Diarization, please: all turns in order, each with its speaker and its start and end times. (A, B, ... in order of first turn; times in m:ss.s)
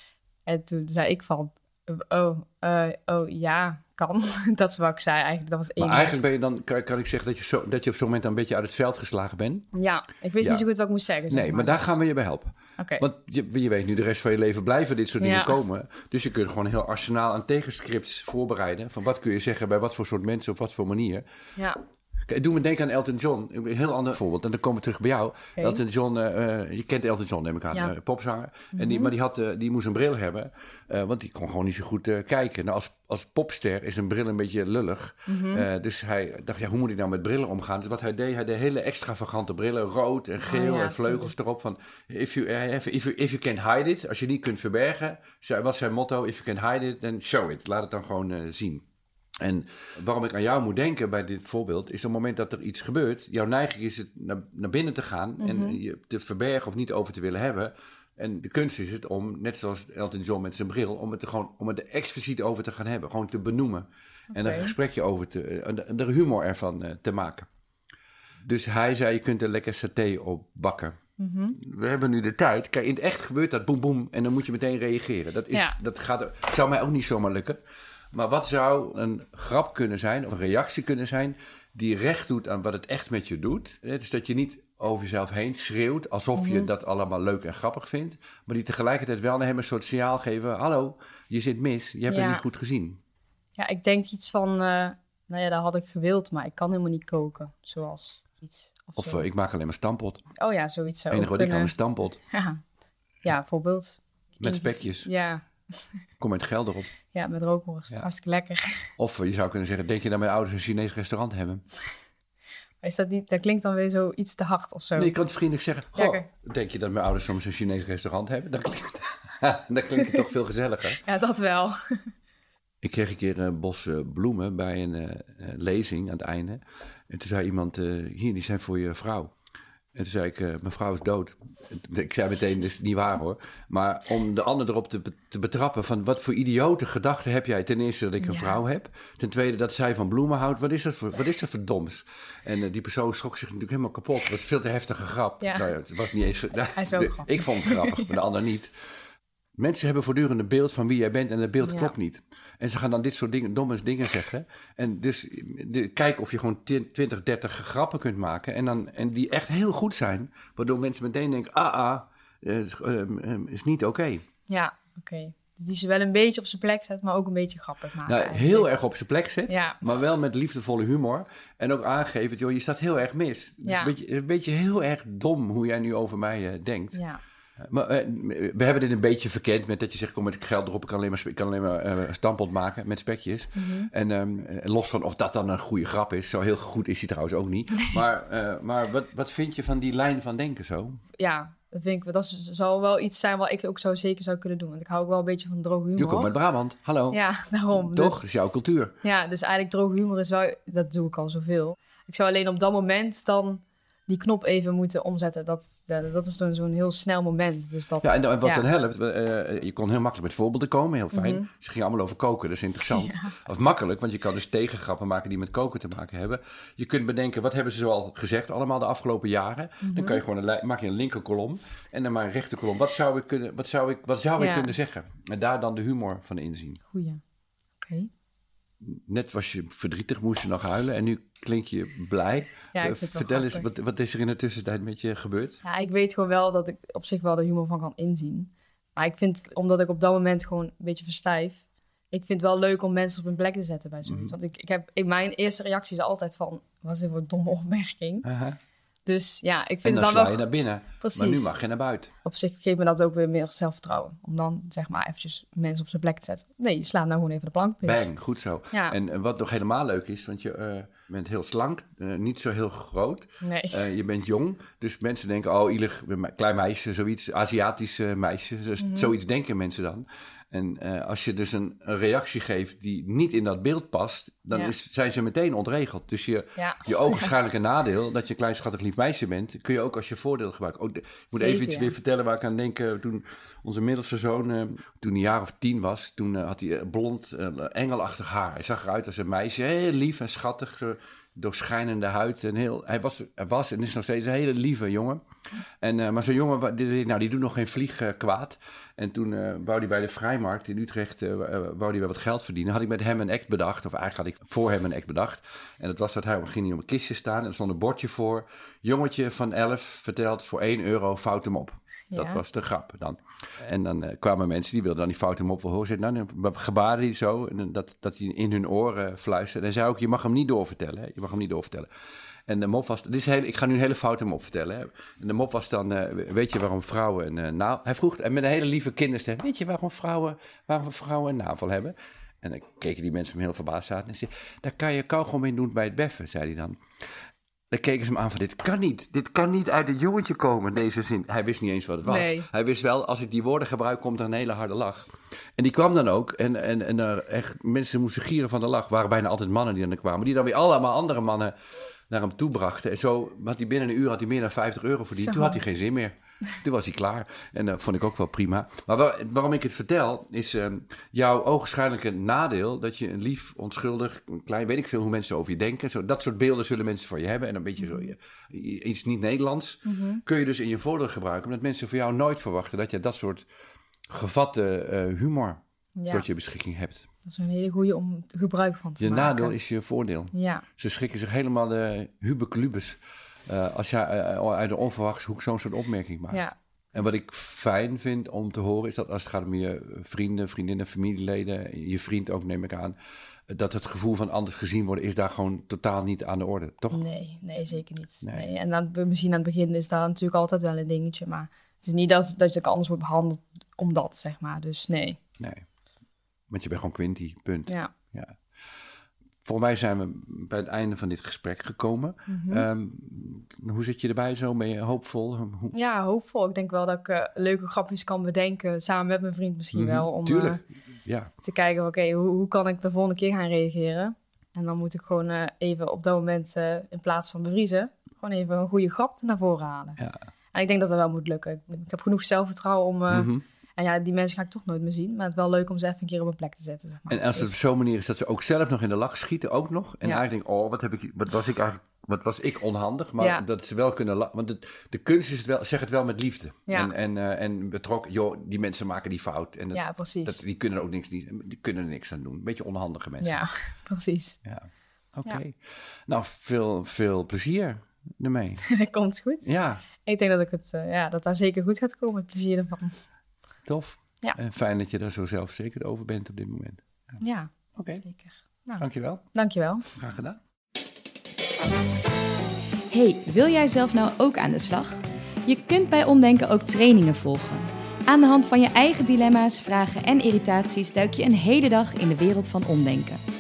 0:00.5-0:06.2 A
0:05.8-0:09.7 B
0:09.7-0:12.0 A
0:10.4-0:10.6 B
0:11.3-0:21.2 B
0:12.8-0:13.0 A
0:15.2-0:15.6 A
0:22.3-0:48.8 B
0:25.6-0:25.8 A
0:28.7-0:29.1 A
0:35.3-0:35.7 A
0:40.4-0:41.3 A
0:49.4-1:07.5 B
0:55.4-0:55.8 A
1:04.3-1:04.8 A
1:08.4-1:11.0 B
1:11.2-1:11.6 A
1:11.6-1:17.6 B
1:18.1-1:33.0 B
1:26.4-1:26.7 A
1:32.1-1:32.4 A
1:33.6-1:39.2 A
1:39.0-1:40.2 B
1:40.4-1:41.7 A
1:41.1-1:42.2 B
1:42.3-1:42.6 A
1:43.2-1:45.8 A
1:44.4-1:45.1 B
1:46.2-1:46.9 B
1:47.1-1:48.9 A
1:49.0-1:51.6 B
1:52.8-1:55.1 A
1:55.0-2:01.0 B
1:56.0-1:56.3 A
2:01.0-2:02.1 A
2:02.8-2:09.3 B
2:10.0-2:28.7 B
2:18.2-2:18.6 A
2:25.4-2:25.7 A
2:26.7-2:28.1 A
2:29.6-2:44.2 B
2:31.6-2:31.9 A
2:44.5-2:48.7 A
2:48.0-2:57.0 B
2:49.5-2:49.8 A
2:53.6-2:53.9 A
2:56.9-2:57.2 A
2:57.6-3:11.0 B
3:03.6-3:03.9 A
3:11.2-3:16.3 A
3:16.0-3:17.2 B
3:17.1-3:18.3 A
3:17.7-3:18.9 B
3:19.0-3:28.7 A
3:28.0-3:46.8 B
3:31.1-3:31.5 A
3:32.9-3:33.4 A
3:39.8-3:40.2 A
3:44.4-3:44.8 A
3:46.9-3:47.2 A
3:47.8-3:48.1 A
3:48.8-3:55.6 B
3:52.7-3:53.7 A
3:55.6-4:08.3 A
4:04.0-4:04.3 B
4:08.2-4:08.6 B
4:09.1-4:10.4 A
4:09.8-4:12.1 B
4:11.0-4:11.5 A
4:12.2-4:18.1 A
4:17.8-4:55.2 B
4:23.4-4:23.9 A
4:28.8-4:29.1 A
4:36.6-4:37.3 A
4:41.3-4:42.0 A
4:55.8-5:21.9 B
5:12.1-5:12.4 A
5:22.5-5:36.8 B
5:37.7-6:13.5 B
5:42.0-5:42.5 A
5:55.2-5:55.6 A
6:07.8-6:08.1 A
6:09.8-6:10.2 A
6:14.1-6:15.6 B
6:16.0-6:16.2 A
6:16.1-6:17.1 B
6:17.3-6:19.6 A
6:19.0-6:33.0 B
6:20.3-6:20.7 A
6:33.5-6:37.0 B
6:36.9-6:45.2 A
6:45.4-6:45.6 B
6:46.5-6:48.4 B
6:47.7-6:47.9 A
6:49.4-6:55.7 B
6:52.3-6:52.7 A
6:55.7-7:00.6 A
6:59.7-7:01.3 B
7:01.4-7:10.0 A
7:10.5-7:17.6 A
7:13.1-7:13.4 B
7:17.1-7:33.4 B
7:26.7-7:26.9 A
7:29.7-7:30.4 A
7:33.2-7:34.4 A
7:34.4-7:38.7 B
7:38.7-7:43.0 A
7:39.4-7:39.8 B
7:43.6-7:47.2 B
7:47.2-7:49.9 A
7:47.8-7:48.0 B
7:48.8-7:49.2 B
7:49.9-7:50.4 B
7:52.9-8:03.2 C